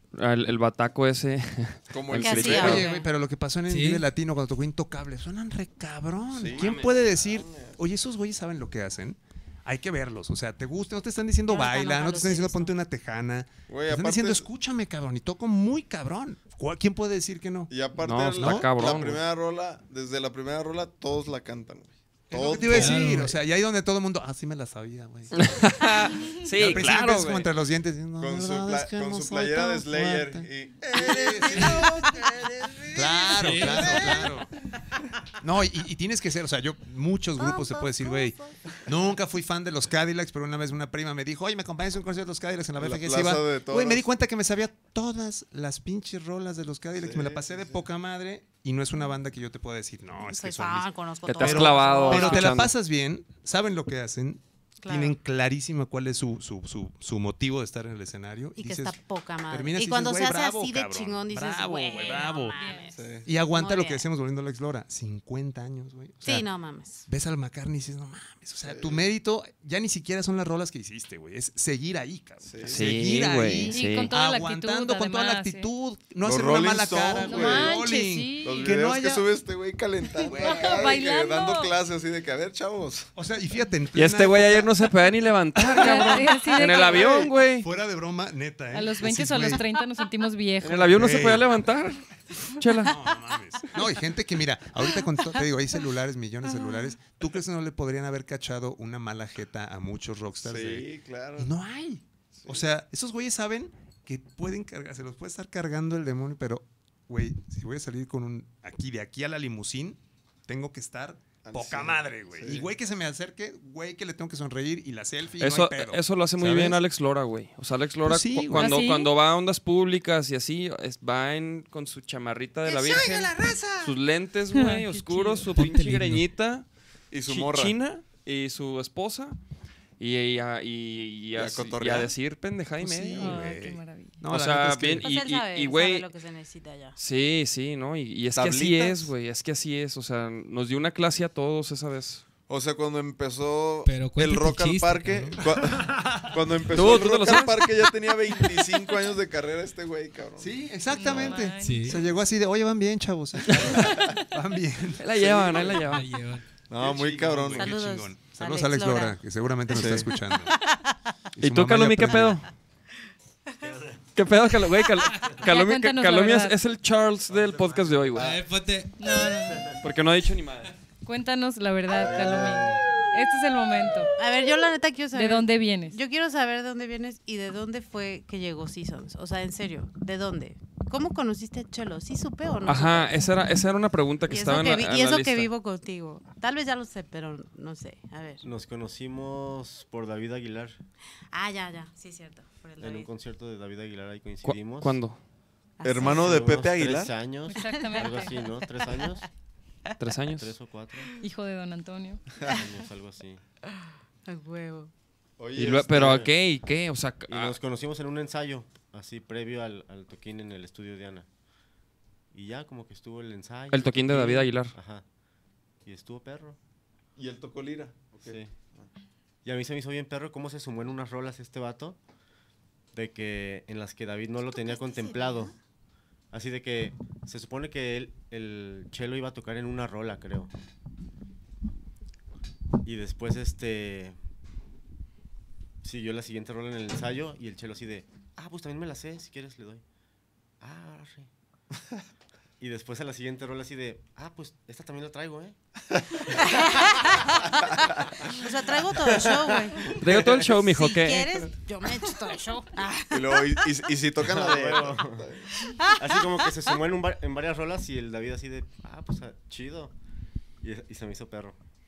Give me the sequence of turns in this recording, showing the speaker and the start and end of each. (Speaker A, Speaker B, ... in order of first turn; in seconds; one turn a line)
Speaker A: 0.1-2.8
Speaker B: 1.9-2.9
Speaker C: 2.1-3.1
Speaker D: 2.4-17.7
Speaker E: 3.7-4.0
Speaker B: 6.3-7.8
Speaker A: 6.5-6.9
Speaker C: 11.5-12.7
Speaker B: 13.7-14.4
Speaker B: 17.7-23.2
Speaker A: 18.0-19.2
Speaker D: 22.3-31.9
Speaker E: 22.7-23.3
Speaker A: 25.3-27.5
Speaker B: 28.2-34.3
Speaker D: 32.9-34.5
Speaker E: 33.4-34.2
Speaker D: 35.4-62.6
Speaker C: 37.4-38.5
Speaker B: 42.8-44.0
Speaker B: 47.0-47.8
Speaker C: 50.3-52.6
Speaker A: 51.2-52.7
Speaker C: 54.8-55.2
Speaker C: 58.6-64.0
Speaker F: 62.0-62.9
Speaker B: 63.0-63.3
Speaker D: 63.2-66.5
Speaker C: 66.2-67.0
Speaker D: 67.1-79.2
Speaker B: 68.6-69.0
Speaker B: 72.4-73.0
Speaker A: 72.6-74.1
Speaker F: 73.7-75.7
Speaker B: 76.2-77.9
Speaker F: 77.2-78.7
Speaker B: 78.4-83.1
Speaker F: 80.2-81.7
Speaker D: 80.3-80.6
Speaker D: 83.2-84.8
Speaker A: 83.9-87.7
Speaker D: 85.6-86.3
Speaker F: 85.7-87.3
Speaker B: 86.8-87.3
Speaker D: 87.6-89.6
Speaker F: 88.7-91.0
Speaker A: 90.6-92.9
Speaker D: 90.9-91.5
Speaker D: 92.8-116.8
Speaker B: 100.4-101.5
Speaker B: 102.3-102.6
Speaker B: 111.4-112.7
Speaker A: 115.4-126.7
Speaker D: 118.0-118.8
Speaker F: 118.5-119.1
Speaker B: 122.7-123.9
Speaker F: 124.5-125.5
Speaker E: 125.5-126.2
Speaker B: 127.1-127.7
Speaker A: 127.2-129.4
Speaker A: 130.0-133.4
Speaker B: 131.3-132.1
Speaker D: 132.8-135.1
Speaker F: 133.2-134.2
Speaker A: 134.2-136.1
Speaker C: 135.0-136.9
Speaker A: 137.0-142.2
Speaker B: 138.3-139.1
Speaker B: 142.5-151.4
Speaker E: 143.8-145.4
Speaker D: 145.3-146.4
Speaker A: 146.7-147.9
Speaker D: 150.4-155.0
Speaker F: 150.9-152.0
Speaker E: 151.6-152.0
Speaker B: 153.5-154.1
Speaker A: 153.5-153.9
Speaker A: 155.0-156.1
Speaker B: 155.1-155.8
Speaker E: 155.8-156.4
Speaker B: 156.7-157.7
Speaker D: 156.8-160.5
Speaker C: 157.5-159.2
Speaker B: 159.7-160.1
Speaker C: 160.3-160.9
Speaker D: 161.3-162.4
Speaker A: 161.4-162.4
Speaker A: 164.1-168.4
Speaker F: 165.3-166.6
Speaker B: 167.3-168.4
Speaker E: 168.1-169.2
Speaker F: 169.0-169.8
Speaker A: 169.7-170.7
Speaker F: 171.0-174.1
Speaker B: 171.9-173.0
Speaker C: 174.2-183.1
Speaker F: 175.1-176.0
Speaker A: 182.7-185.5
Speaker C: 184.3-188.4
Speaker G: 188.4-190.8
Speaker C: 191.3-193.1
Speaker G: 192.8-195.0
Speaker A: 194.4-195.2
Speaker C: 195.8-196.5
Speaker B: 195.8-197.1
Speaker G: 196.0-199.2
Speaker F: 197.5-198.3
Speaker C: 197.6-199.1
Speaker A: 200.0-200.5
Speaker G: 200.3-201.1
Speaker F: 201.2-202.2
Speaker G: 202.4-203.4
Speaker C: 204.3-204.9
Speaker B: 205.4-206.1
Speaker A: 205.6-207.6
Speaker G: 205.6-206.3
Speaker G: 207.3-211.3
Speaker G: 212.3-215.0
Speaker A: 213.7-214.7
Speaker G: 215.8-216.6
Speaker B: 217.2-218.9
Speaker G: 218.2-218.5
Speaker G: 219.4-222.0
Speaker G: 222.9-225.5
Speaker C: 224.5-225.5
Speaker G: 226.3-230.5
Speaker G: 232.8-234.2
Speaker G: 235.8-239.8
Speaker G: 240.6-241.3
Speaker G: 242.6-245.6
Speaker C: 246.3-247.5
Speaker G: 246.5-247.1
Speaker C: 248.3-250.0
Speaker G: 249.0-250.0
Speaker A: 250.0-251.4
Speaker C: 250.6-253.6
Speaker B: 253.1-255.5
Speaker G: 254.2-255.3
Speaker C: 255.6-256.0
Speaker G: 256.0-259.9
Speaker G: 260.6-261.6